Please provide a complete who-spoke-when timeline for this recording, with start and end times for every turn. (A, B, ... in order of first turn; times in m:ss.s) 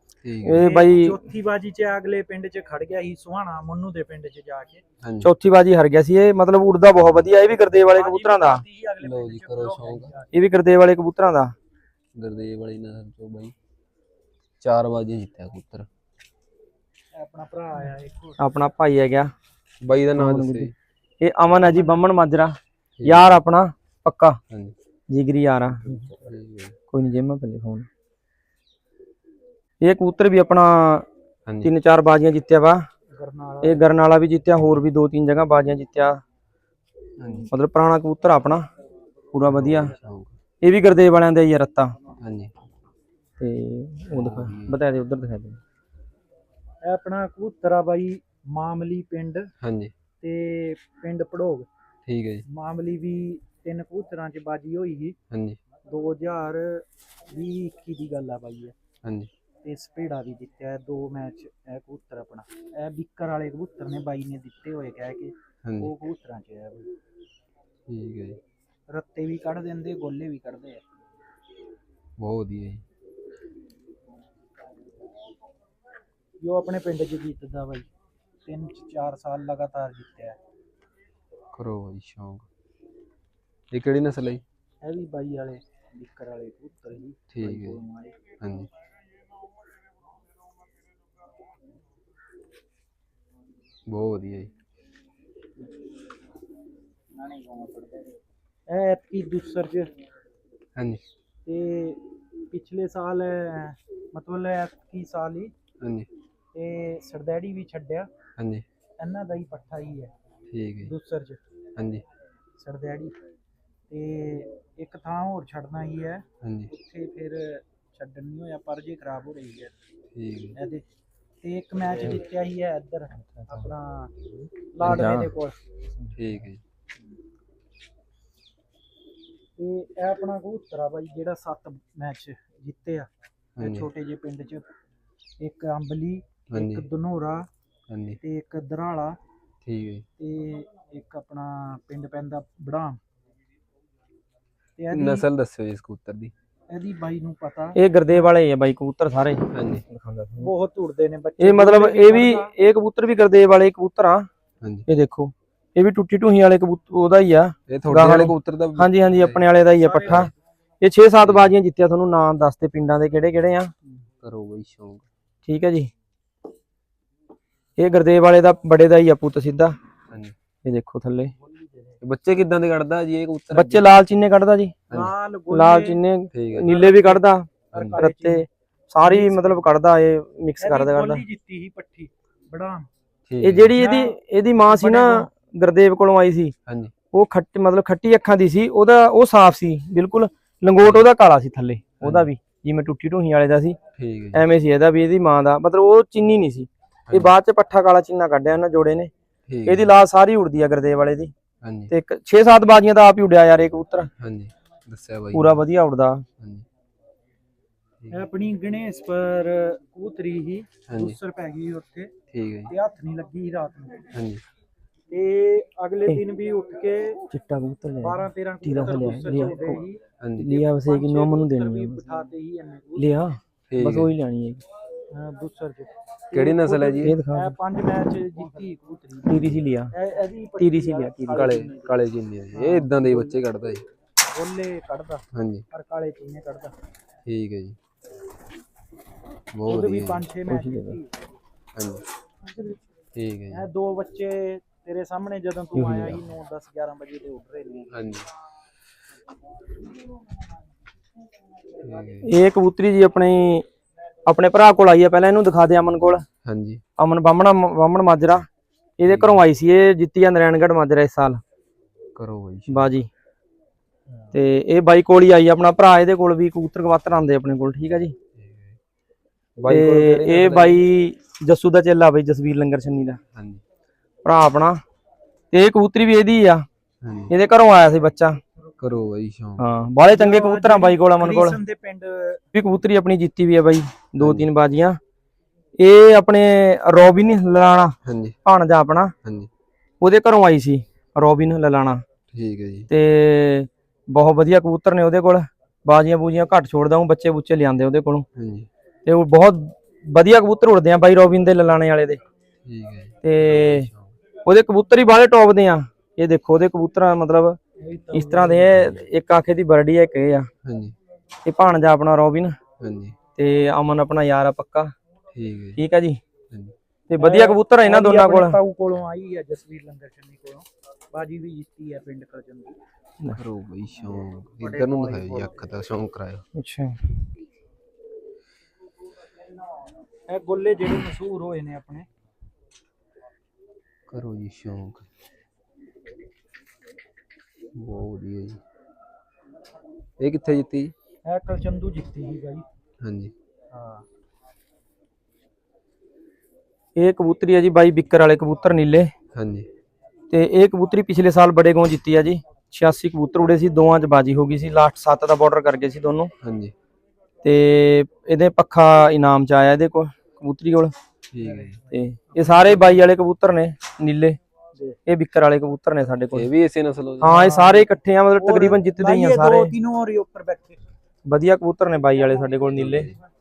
0:00.2-0:00.6 A
0:00.4-0:01.2 B
0:00.6-0:04.8 C
0:05.0-0:05.3 A
0:05.2-0:08.6 B
0:07.8-0:10.3 C
0:09.0-0:10.1 A
0:10.3-0:11.5 B
0:12.2-0:13.5 A
0:14.6-0:15.9 A
0:17.1-0:18.4 C
0:18.4-0:19.3 B
0:19.8-0:20.7 A
0:20.2-0:20.7 B
0:21.2-0:24.4 B
0:23.0-0:23.4 A
0:24.5-0:24.8 A
0:25.1-0:26.0 B
0:25.9-0:26.8 A
0:26.9-0:27.9 B
0:29.8-0:31.1 B
0:31.6-0:32.8 B
0:33.1-0:33.9 C
0:33.6-0:36.2 B
0:37.2-0:37.5 A
0:37.5-0:38.7 B
0:39.3-0:39.9 B
0:39.5-0:40.3 A
0:40.6-0:42.0 B
0:42.2-0:42.5 A
0:43.4-0:45.6 B
0:44.1-0:44.8 A
0:46.8-0:49.5 C
0:49.6-0:49.9 A
0:50.2-0:51.7 C
0:52.1-0:52.4 A
0:52.5-0:55.2 C
0:55.3-0:55.6 A
0:55.9-0:58.8 C
0:59.0-0:59.3 A
0:59.6-1:06.9 C
1:05.6-1:05.9 A
1:07.9-1:08.4 A
1:08.9-1:10.8 C
1:12.2-1:12.8 A
1:16.4-1:17.9 C
1:18.5-1:20.4 C
1:21.6-1:22.4 A
1:23.7-1:24.4 A
1:24.8-1:28.2 C
1:27.3-1:27.8 A
1:28.4-1:28.7 A
1:33.9-1:34.5 A
1:37.2-1:39.9 C
1:40.8-1:41.0 A
1:41.5-1:45.5 C
1:45.8-1:46.1 A
1:46.5-1:48.1 C
1:48.4-1:48.6 A
1:49.0-1:50.1 C
1:50.5-1:50.9 A
1:50.8-1:51.4 C
1:51.8-1:52.0 A
1:52.6-1:53.2 C
1:53.9-1:59.8 C
1:56.4-1:56.7 A
2:00.1-2:00.6 A
2:00.6-2:00.8 C
2:01.4-2:04.1 C
2:03.2-2:03.7 B
2:04.7-2:05.6 C
2:04.8-2:05.3 A
2:06.1-2:06.6 A
2:09.6-2:14.7 C
2:13.6-2:13.9 A
2:15.4-2:17.5 C
2:16.5-2:16.8 A
2:17.9-2:18.2 A
2:18.2-2:19.2 C
2:19.6-2:20.1 A
2:20.2-2:23.0 C
2:24.8-2:25.2 C
2:24.9-2:26.3 A
2:26.7-2:28.3 C
2:27.8-2:30.5 B
2:29.5-2:29.8 A
2:30.4-2:32.5 C
2:31.4-2:34.3 B
2:34.6-2:34.9 A
2:34.9-2:40.3 B
2:37.7-2:39.4 A
2:39.8-2:40.3 C
2:40.8-2:43.7 B
2:41.2-2:41.5 A
2:44.2-2:45.0 A
2:45.5-2:45.9 B
2:47.8-2:49.7 B
2:50.1-2:50.4 A
2:50.6-2:51.3 B
2:51.4-2:52.0 C
2:52.0-2:53.9 A
2:53.5-2:54.8 B
2:54.9-2:56.0 C
2:55.5-3:01.2 B
2:56.3-2:56.7 A
2:56.6-2:58.5 C
2:59.0-2:59.7 C
3:00.6-3:02.9 C
3:03.3-3:03.7 A
3:03.4-3:06.5 B
3:03.8-3:05.3 C
3:06.7-3:06.9 A
3:07.1-3:13.8 B
3:10.8-3:11.1 A
3:12.0-3:12.3 A
3:14.0-3:14.4 A
3:14.3-3:19.1 B
3:17.1-3:17.3 A
3:19.5-3:19.9 A
3:19.7-3:21.3 B
3:21.6-3:21.9 A
3:21.9-3:24.1 B
3:24.2-3:25.6 A
3:25.3-3:26.2 B
3:26.4-3:26.7 A
3:28.1-3:32.1 C
3:30.9-3:31.2 A
3:32.3-3:32.7 A
3:32.7-3:34.1 C
3:34.1-3:34.4 A
3:35.1-3:37.3 C
3:37.3-3:39.8 B
3:38.0-3:43.2 C
3:40.2-3:40.5 A
3:40.4-3:42.0 B
3:43.0-3:44.6 B
3:43.7-3:44.1 A
3:45.1-3:52.0 C
3:46.3-3:47.2 A
3:47.0-3:47.6 B
3:49.3-3:49.9 B
3:50.6-3:51.5 B
3:51.3-3:53.8 A
3:52.5-3:53.4 C
3:54.3-3:56.8 C
3:55.3-3:55.7 A
3:57.3-3:57.8 A
3:59.6-4:00.2 A
3:59.7-4:01.1 C
4:00.5-4:01.0 B
4:01.8-4:02.0 A
4:03.2-4:03.7 A
4:03.5-4:07.9 C
4:05.8-4:06.2 B
4:07.9-4:08.3 A
4:11.8-4:12.3 A
4:12.3-4:13.6 B
4:14.3-4:16.2 B
4:16.4-4:16.8 A
4:17.0-4:18.5 B
4:19.0-4:21.4 B
4:19.0-4:19.4 A
4:22.2-4:22.9 A
4:22.7-4:23.1 B
4:24.3-4:28.2 B
4:28.4-4:28.8 A
4:29.6-4:30.8 A
4:29.7-4:33.2 B
4:33.3-4:33.6 A
4:34.2-4:34.8 B
4:35.5-4:36.6 B
4:37.0-4:37.3 A
4:37.3-4:38.4 B
4:38.8-4:39.6 A
4:39.6-4:41.6 B
4:40.0-4:42.4 C
4:42.5-4:45.0 B
4:44.2-4:44.5 A
4:45.8-4:49.1 B
4:48.0-4:48.4 A
4:49.2-4:49.5 A
4:50.0-4:52.0 B
4:52.3-4:52.9 A
4:52.9-4:58.3 B
4:58.4-4:58.7 A
4:59.0-5:02.2 B
5:02.6-5:04.2 A
5:03.2-5:03.9 B
5:04.5-5:07.6 B
5:07.8-5:08.9 C
5:08.1-5:10.5 B
5:10.6-5:11.0 A
5:11.4-5:12.6 B
5:12.8-5:13.2 A
5:13.4-5:14.9 B
5:15.3-5:15.8 A
5:15.8-5:16.2 B
5:16.5-5:16.8 A
5:17.1-5:18.6 B
5:17.2-5:22.8 C
5:23.3-5:26.5 A
5:24.6-5:25.7 C
5:26.6-5:27.2 B
5:30.3-5:32.1 C
5:34.1-5:35.1 A
5:37.8-5:38.6 A
5:40.2-5:40.9 A
5:41.3-5:42.7 C
5:43.0-5:43.3 A
5:43.7-5:44.0 C
5:47.0-5:49.1 B
5:49.3-5:49.7 A
5:50.3-5:56.3 B
5:56.4-5:56.8 A
5:57.4-6:00.9 B
6:01.3-6:01.8 A
6:01.4-6:03.1 C
6:01.9-6:04.4 B
6:05.1-6:06.5 B
6:06.3-6:07.5 A
6:07.2-6:09.7 B
6:07.2-6:10.8 C
6:11.3-6:13.1 B
6:12.7-6:13.2 A